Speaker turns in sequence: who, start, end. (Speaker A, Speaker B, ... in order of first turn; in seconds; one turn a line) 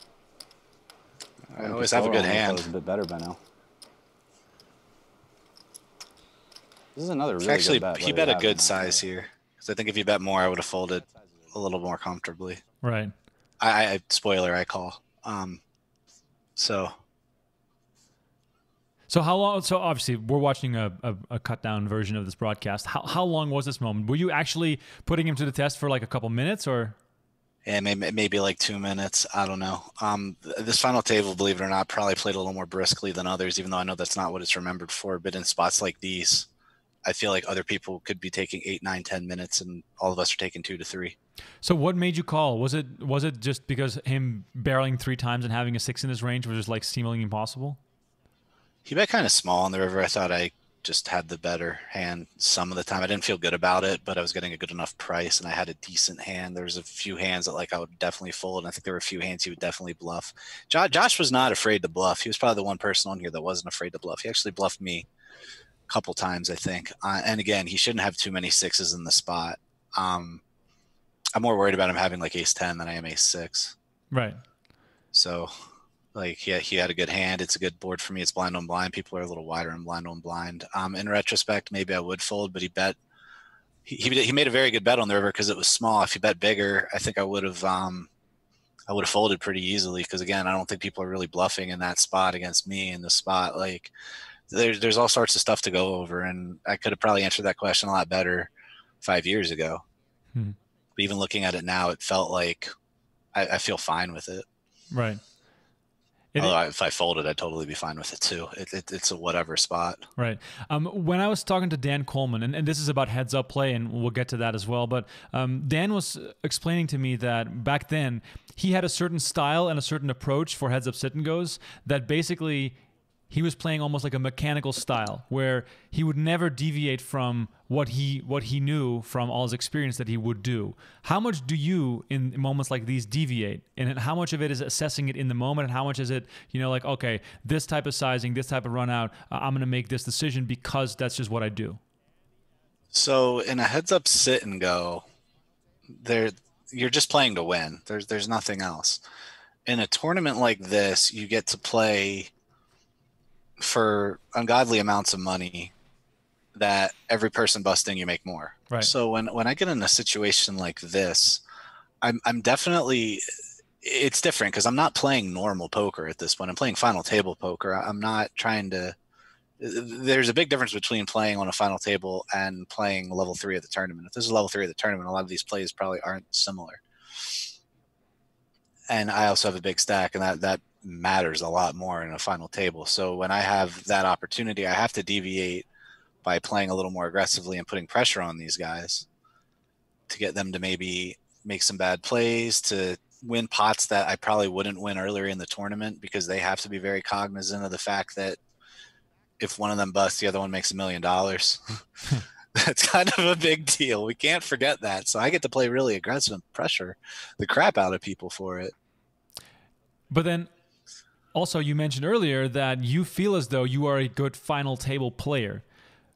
Speaker A: 1.5-2.6
Speaker B: 1.6-3.4
Speaker B: 6.9-9.0
Speaker A: 7.4-12.6
Speaker C: 12.8-13.1
Speaker A: 13.6-15.6
Speaker A: 16.6-16.9
Speaker C: 19.1-26.9
Speaker A: 27.6-36.5
Speaker A: 37.0-41.1
Speaker C: 41.6-47.8
Speaker A: 48.9-65.1
Speaker A: 65.9-70.4
Speaker A: 71.3-73.7
Speaker C: 74.1-74.4
Speaker A: 75.1-75.5
Speaker A: 76.1-83.0
Speaker A: 83.8-88.1
Speaker A: 88.9-93.9
Speaker A: 94.5-98.5
Speaker A: 99.0-99.8
Speaker A: 101.0-102.7
Speaker A: 103.3-104.5
Speaker C: 104.9-105.2
Speaker A: 106.4-110.0
Speaker C: 110.2-122.8
Speaker C: 123.3-141.8
Speaker A: 142.9-145.0
Speaker A: 145.9-149.0
Speaker A: 149.7-152.3
Speaker A: 153.6-155.7
Speaker A: 156.5-161.4
Speaker A: 162.0-163.2
Speaker A: 163.8-168.9
Speaker A: 169.6-177.3
Speaker A: 178.9-185.6
Speaker A: 186.2-189.1
Speaker A: 190.1-198.4
Speaker A: 199.4-201.6
Speaker A: 202.6-208.7
Speaker C: 210.1-210.5
Speaker C: 211.3-215.6